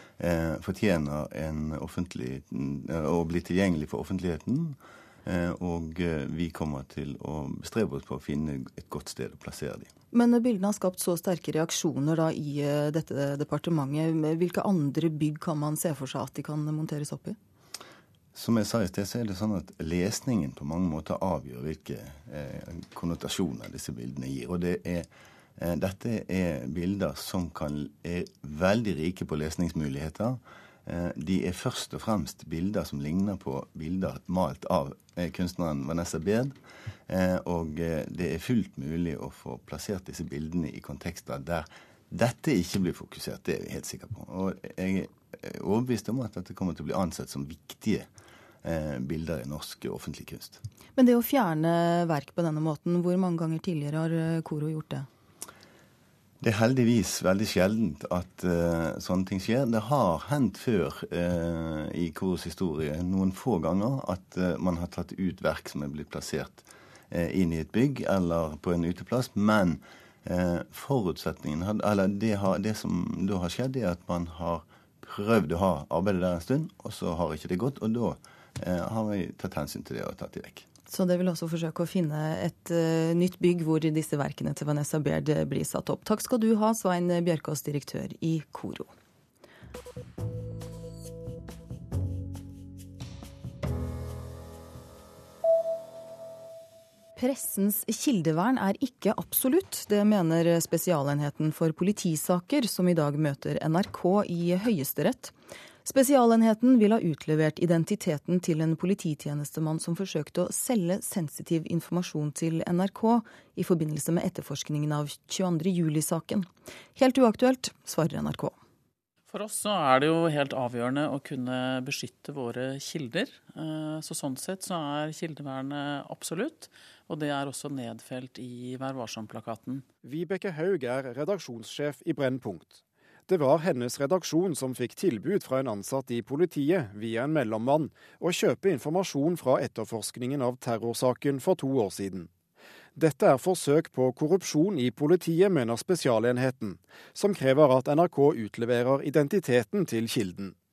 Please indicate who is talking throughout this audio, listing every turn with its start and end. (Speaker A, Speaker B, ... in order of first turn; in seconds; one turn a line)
Speaker A: 0.2-9.9
Speaker B: 10.1-17.4
Speaker A: 18.3-36.5
Speaker A: 37.1-48.1
Speaker A: 48.6-50.6
Speaker B: 51.0-55.1
Speaker A: 56.4-80.6
Speaker B: 80.9-88.9
Speaker B: 97.2-118.5
Speaker C: 119.3-129.8
Speaker D: 130.0-142.3
Speaker D: 142.9-150.5